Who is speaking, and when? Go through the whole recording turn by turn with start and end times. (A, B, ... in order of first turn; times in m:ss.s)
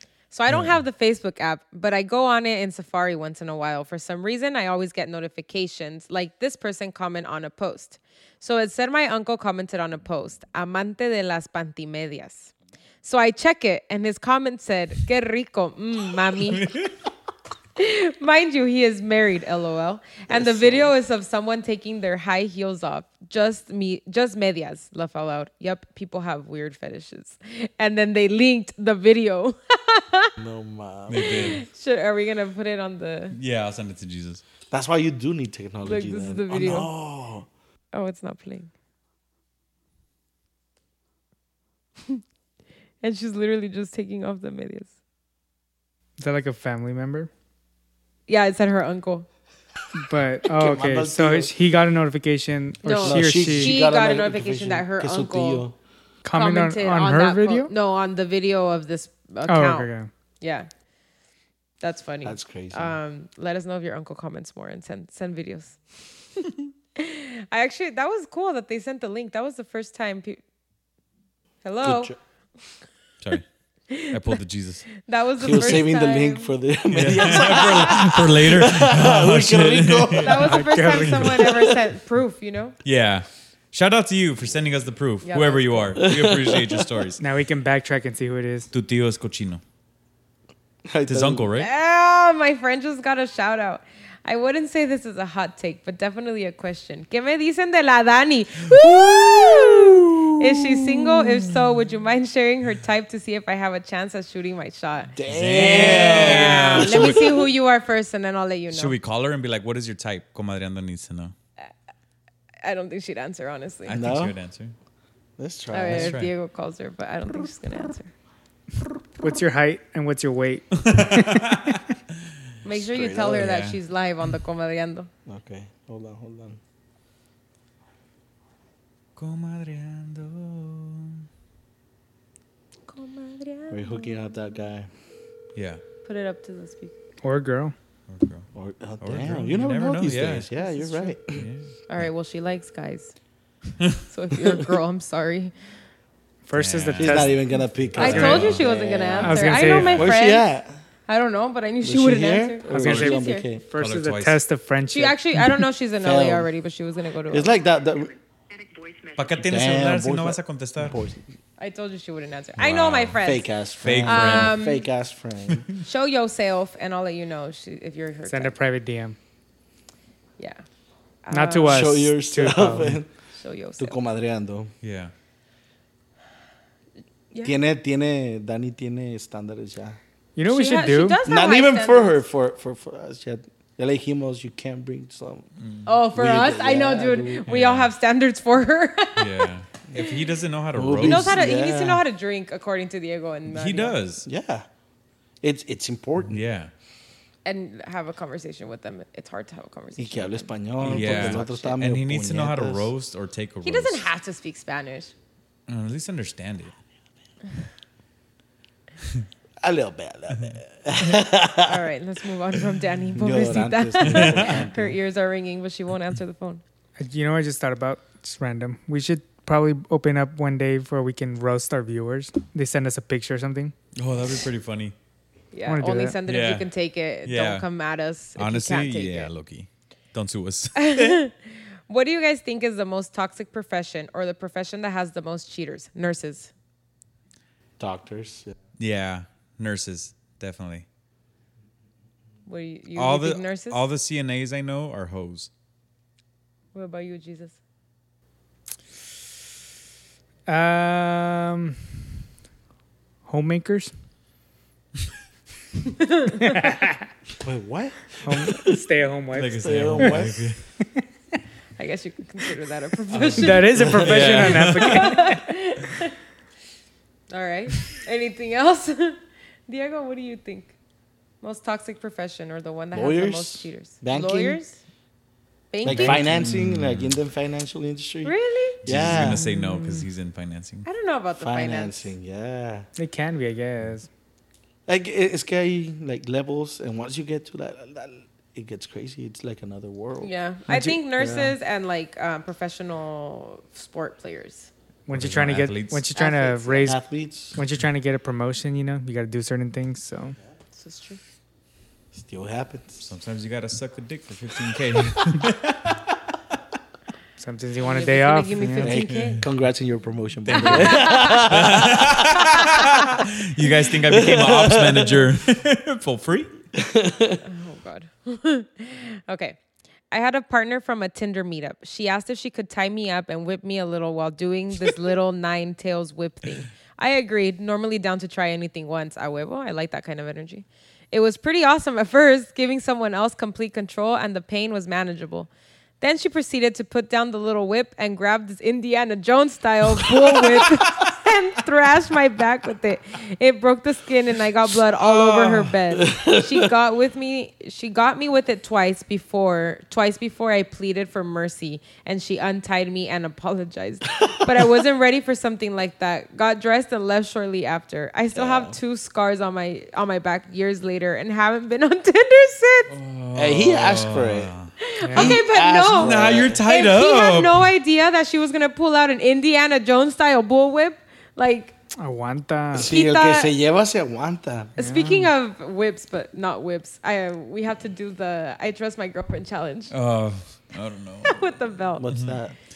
0:00.3-0:12.5 A
0:00.5-0:00.8 B
0:13.0-0:16.7 A
0:16.5-0:16.9 B
0:17.8-0:30.3 A
0:20.3-0:20.9 C
0:30.4-0:31.5 C
0:31.1-0:31.6 B
0:31.1-0:33.4 A
0:33.3-0:34.4 B
0:34.7-0:37.5 C
0:35.8-0:36.9 A
0:37.9-0:38.7 A
0:43.0-0:44.9 A
0:46.2-0:47.3 D
0:48.3-0:49.3 A
0:49.9-0:53.8 D
0:50.5-0:51.6 C
0:52.8-0:55.6 A
0:53.0-0:55.8 C
0:56.2-0:57.7 D
0:56.3-1:00.7 A
0:59.5-1:00.1 D
1:01.8-1:05.8 A
1:02.2-1:03.0 C
1:06.4-1:10.4 A
1:11.6-1:12.1 A
1:11.8-1:12.2 C
1:13.9-1:14.4 A
1:14.1-1:14.9 B
1:15.0-1:16.5 A
1:15.4-1:20.6 C
1:15.5-1:15.8 B
1:16.9-1:20.5 B
1:17.2-1:17.9 A
1:20.2-1:22.8 A
1:20.4-1:21.3 D
1:21.0-1:21.3 B
1:21.2-1:21.5 C
1:22.8-1:27.2 B
1:25.2-1:26.0 A
1:26.0-1:27.0 C
1:27.2-1:28.7 D
1:28.7-1:29.6 B
1:30.9-1:31.5 C
1:31.1-1:31.7 B
1:31.6-1:48.9 A
1:39.0-1:39.6 C
1:39.0-1:40.3 B
1:45.1-1:47.4 C
1:45.3-1:47.3 B
1:48.7-1:51.3 B
1:52.6-1:54.0 A
1:53.9-1:54.7 B
1:53.9-1:54.3 C
1:55.4-1:56.2 C
1:55.7-1:58.1 A
1:55.9-1:56.3 B
1:59.2-2:01.6 D
2:00.8-2:01.8 B
2:02.6-2:05.1 A
2:02.7-2:03.5 C
2:03.4-2:03.8 B
2:05.3-2:06.6 C
2:09.2-2:11.2 B
2:12.9-2:14.4 A
2:13.7-2:14.9 C
2:15.5-2:15.8 B
2:16.0-2:16.9 A
2:17.2-2:17.7 D
2:18.1-2:18.5 B
2:18.5-2:21.4 C
2:19.0-2:20.5 B
2:20.6-2:21.2 A
2:21.3-2:21.7 B
2:21.9-2:23.1 A
2:24.1-2:25.5 A
2:26.4-2:28.4 D
2:26.5-2:27.3 B
2:27.0-2:30.7 C
2:27.9-2:28.6 B
2:27.9-2:30.4 A
2:29.2-2:30.0 D
2:29.6-2:30.1 B
2:31.1-2:33.4 A
2:31.8-2:33.6 C
2:32.7-2:35.2 D
2:33.8-2:34.4 B
2:34.9-2:37.5 A
2:36.0-2:36.5 C
2:37.3-2:38.1 C
2:39.2-2:41.0 B
2:39.4-2:41.2 C
2:41.6-2:43.5 A
2:42.6-2:43.2 B
2:43.2-2:45.7 C
2:43.8-2:44.6 B
2:44.0-2:44.8 A
2:45.5-2:45.8 B
2:45.8-2:48.6 A
2:48.3-2:49.2 D
2:50.4-2:50.6 A
2:51.2-2:52.0 A
2:51.3-2:53.0 D
2:51.6-2:53.1 C
2:53.3-2:54.0 A
2:53.8-2:54.7 C
2:54.8-2:55.1 B
2:57.4-3:00.0 C
3:00.4-3:01.2 D
3:00.4-3:02.2 A
3:01.2-3:05.5 C
3:05.6-3:05.9 B
3:05.8-3:09.4 A
3:06.1-3:07.4 C
3:07.5-3:07.9 B
3:09.2-3:11.4 B
3:10.7-3:12.0 C
3:11.0-3:14.0 A
3:13.5-3:14.2 B
3:14.2-3:14.6 C
3:15.4-3:16.4 C
3:16.3-3:16.7 B
3:17.4-3:21.7 A
3:20.0-3:22.9 C
3:20.8-3:24.1 B
3:23.6-3:25.1 A
3:25.7-3:26.7 B
3:29.6-3:31.8 C
3:31.6-3:36.6 A
3:33.1-3:35.0 C
3:34.0-3:34.6 B
3:37.0-3:43.7 D
3:44.0-3:44.9 B
3:45.5-3:49.3 A
3:45.7-3:46.2 D
3:46.3-3:46.7 B
3:47.2-3:47.6 B
3:48.4-3:51.2 B
3:50.8-3:56.5 A
3:57.8-3:58.5 C
3:58.8-4:00.8 B
4:02.4-4:03.8 A
4:02.9-4:05.5 B
4:06.7-4:07.6 A
4:10.5-4:11.8 D
4:13.3-4:13.9 D
4:16.0-4:16.4 A
4:16.4-4:17.0 D
4:17.4-4:18.8 C
4:18.2-4:20.2 D
4:19.3-4:20.6 B
4:19.6-4:20.5 C
4:21.8-4:26.1 A
4:23.1-4:25.1 B
4:23.3-4:25.5 D
4:23.8-4:24.1 C
4:27.3-4:30.7 A
4:31.4-4:34.8 A
4:32.9-4:34.6 C
4:35.7-4:36.2 A
4:35.8-4:39.4 C
4:35.8-4:37.1 B
4:38.2-4:38.8 A
4:38.8-4:40.8 B
4:39.2-4:40.0 D
4:40.8-4:42.1 A
4:41.4-4:42.9 C
4:43.0-4:44.1 D
4:44.9-4:51.6 C
4:50.2-4:54.7 A
4:55.1-4:57.0 D
4:55.1-4:56.1 B
4:56.1-4:56.9 A
4:56.8-4:57.6 C
4:57.6-5:00.4 D
5:00.7-5:01.2 A
5:02.1-5:03.0 C
5:03.0-5:06.1 B
5:07.4-5:08.9 D
5:07.8-5:09.4 A
5:08.8-5:12.8 C
5:09.1-5:09.4 B
5:10.4-5:16.5 B
5:10.5-5:11.5 A
5:12.4-5:13.0 A
5:14.1-5:15.3 C
5:16.7-5:17.4 C
5:17.4-5:19.6 A
5:20.1-6:02.9 A
5:45.0-5:45.7 B
5:46.0-5:46.7 C
5:58.3-5:58.8 C
6:02.9-6:04.7 B
6:03.3-6:04.5 C
6:04.8-6:11.7 A
6:05.0-6:05.4 D
6:05.1-6:06.6 C
6:05.9-6:07.6 B
6:12.0-6:12.9 D
6:12.7-6:14.8 C
6:12.8-6:13.5 A
6:14.8-6:19.9 A
6:14.8-6:15.3 D
6:19.9-6:21.4 B
6:21.2-6:22.1 A
6:22.0-6:22.5 C
6:22.1-6:22.4 B